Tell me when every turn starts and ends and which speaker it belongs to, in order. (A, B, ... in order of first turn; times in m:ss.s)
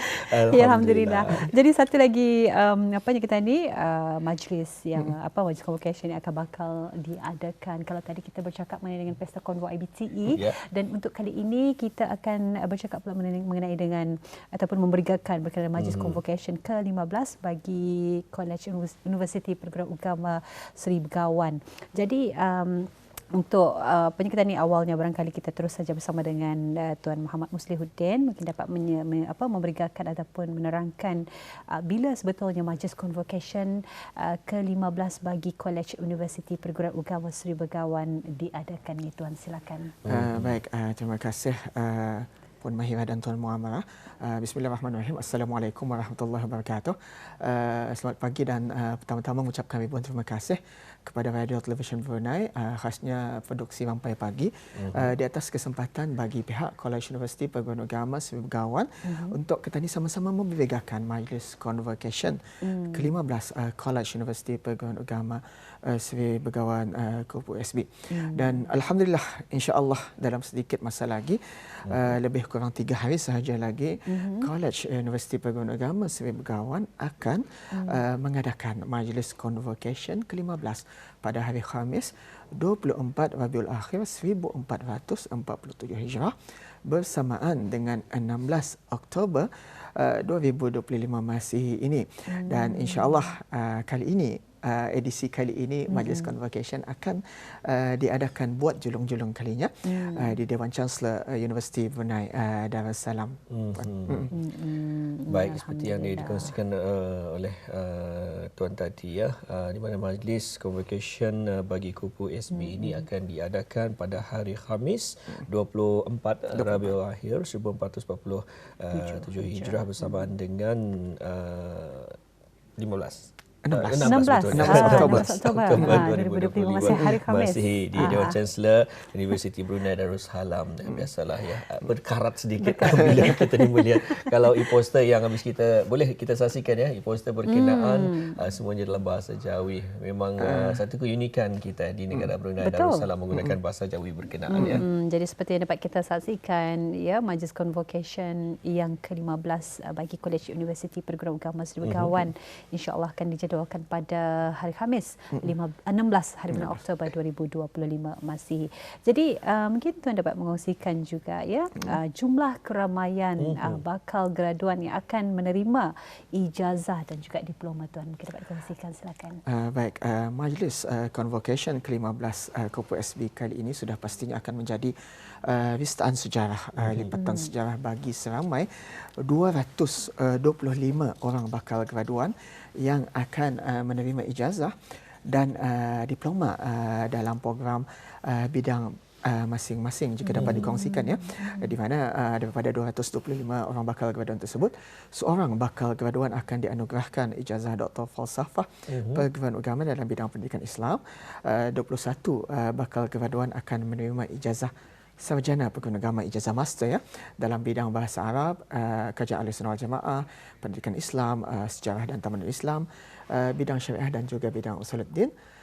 0:00.2-0:01.5 A
0:00.5-0:31.2 B
0:10.3-0:10.6 A
0:15.8-0:16.2 A
0:31.7-0:40.0 B
0:40.0-0:40.6 A
0:40.0-1:26.3 C
0:54.8-0:55.1 A
0:59.0-0:59.4 B
1:02.6-1:03.2 B
1:08.1-1:08.7 B
1:11.8-1:12.2 A
1:14.1-1:14.5 B
1:17.7-1:18.0 B
1:26.8-1:44.3 C
1:32.3-1:33.3 B
1:35.9-1:36.3 B
1:39.9-1:40.4 B
1:43.5-1:44.4 A
1:44.3-1:46.5 B
1:45.3-2:02.2 A
1:52.5-1:53.0 B
1:56.5-1:57.0 C
1:58.9-2:00.2 B
2:02.8-2:24.8 A
2:03.6-2:06.1 C
2:04.0-2:08.4 B
2:12.6-2:13.9 B
2:13.0-2:13.4 C
2:17.4-2:18.4 B
2:20.4-2:20.8 C
2:22.6-2:23.1 B
2:23.3-2:23.6 C
2:24.5-2:49.4 B
2:24.5-2:24.8 C
2:31.8-2:32.2 A
2:36.5-2:37.1 C
2:43.4-2:43.8 A
2:49.4-3:35.3 C
2:56.8-2:57.2 A
2:57.1-2:57.5 B
3:10.2-3:11.8 B
3:10.4-3:10.6 A
3:18.9-3:19.2 A